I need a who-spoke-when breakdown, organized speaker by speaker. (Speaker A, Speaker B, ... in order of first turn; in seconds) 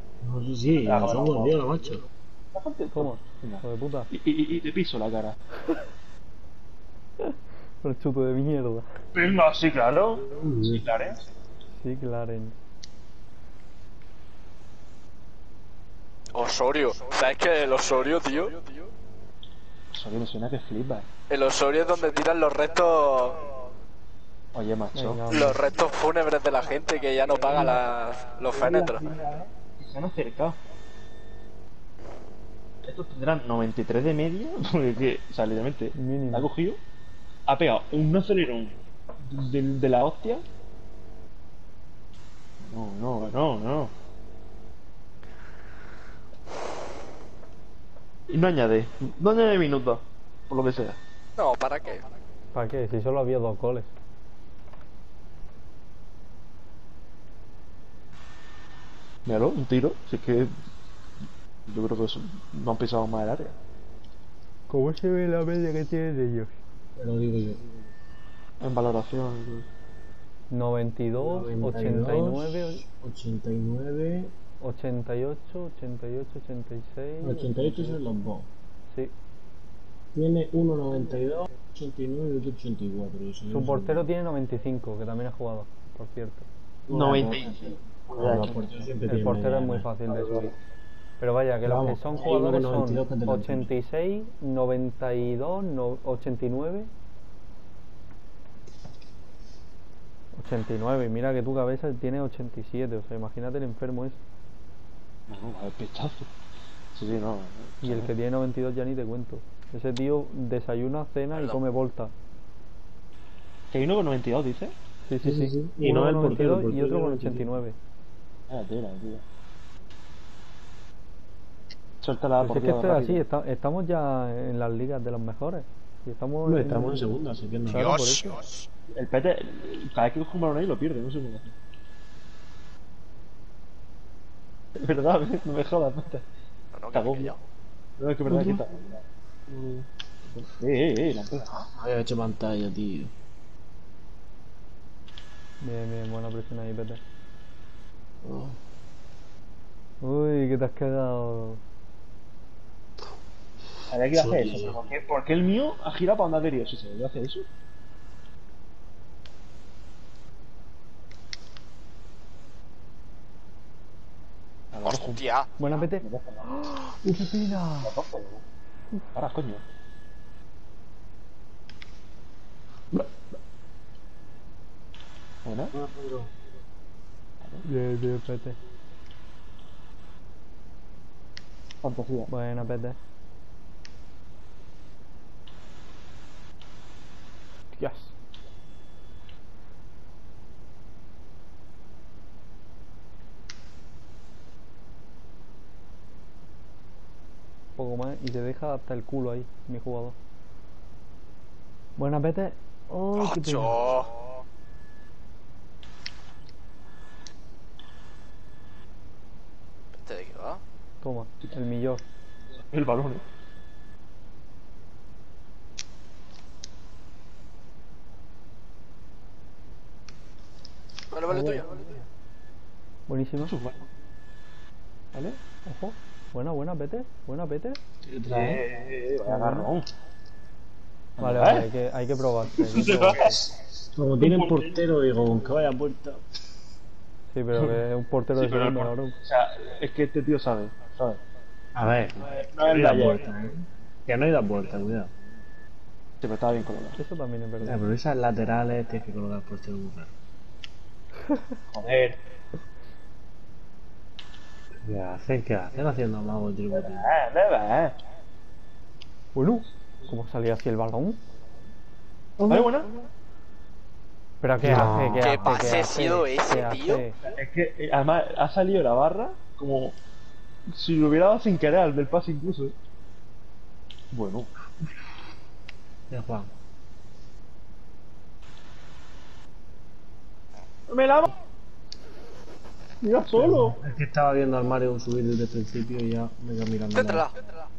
Speaker A: 0.2-2.0, 10.3-10.8, 67.0-67.6, 71.2-74.3, 77.2-78.5, 80.1-84.1, 86.9-89.9, 91.6-93.7, 115.2-117.5, 126.5-127.9, 138.2-138.6, 141.6-143.1, 148.2-148.5, 154.1-154.8, 167.0-167.4, 175.7-176.3, 221.3-221.6, 228.1-228.6, 233.9-236.2, 241.7-245.1, 247.6-250.1, 254.9-257.1, 262.4-262.9, 264.6-265.7, 276.1-276.5, 283.3-287.2
Speaker B: 0.8-1.6, 2.5-5.3, 9.1-11.2, 19.9-21.1, 24.5-25.2, 28.5-30.6, 32.8-36.8, 37.5-38.7, 39.2-40.4, 42.6-43.9, 48.3-51.0, 59.2-60.5, 61.7-63.5, 68.6-69.7, 86.9-89.0, 90.1-90.5, 105.3-106.3, 106.9-108.1, 113.7-114.7, 118.5-119.2, 122.0-123.2, 128.9-131.5, 134.8-136.2, 136.9-137.3, 138.0-141.6, 153.9-157.5, 164.7-165.2, 166.0-166.5, 167.8-168.4, 169.1-169.6, 175.4-175.7, 181.8-182.3, 212.7-213.2, 223.4-223.8, 225.1-225.4, 228.3-229.9, 231.2-231.7, 232.6-233.4, 234.2-234.8, 238.3-241.2, 242.2-243.3, 246.2-247.0, 251.7-252.2, 256.7-257.9, 262.5-262.9, 267.3-269.9, 270.7-272.7, 274.1-274.5, 280.9-281.4, 283.0-283.8
Speaker C: 2.9-4.1, 7.2-8.9, 11.8-12.6, 24.9-25.6, 35.9-36.5, 52.5-53.9, 64.7-66.5, 70.5-72.8, 74.6-77.9, 83.5-86.5, 89.1-90.5, 91.2-96.9, 100.3-104.2, 107.8-112.1, 115.0-117.8, 122.4-128.4, 145.6-147.0, 150.0-151.6, 165.6-167.9, 177.6-178.6, 182.3-183.0, 187.7-188.1, 197.8-200.1, 202.0-203.8, 211.0-212.0, 223.1-223.5, 225.6-227.8, 229.2-229.7, 231.2-233.3, 237.3-239.1, 246.9-247.8, 259.3-261.2, 264.4-267.2
Speaker D: 16.3-18.9, 21.3-23.5, 25.3-29.1, 51.4-52.0, 111.3-111.6, 127.7-128.7, 136.7-137.4, 164.8-165.8, 203.2-204.1, 209.9-210.6, 221.1-221.8, 265.2-267.0, 286.9-287.6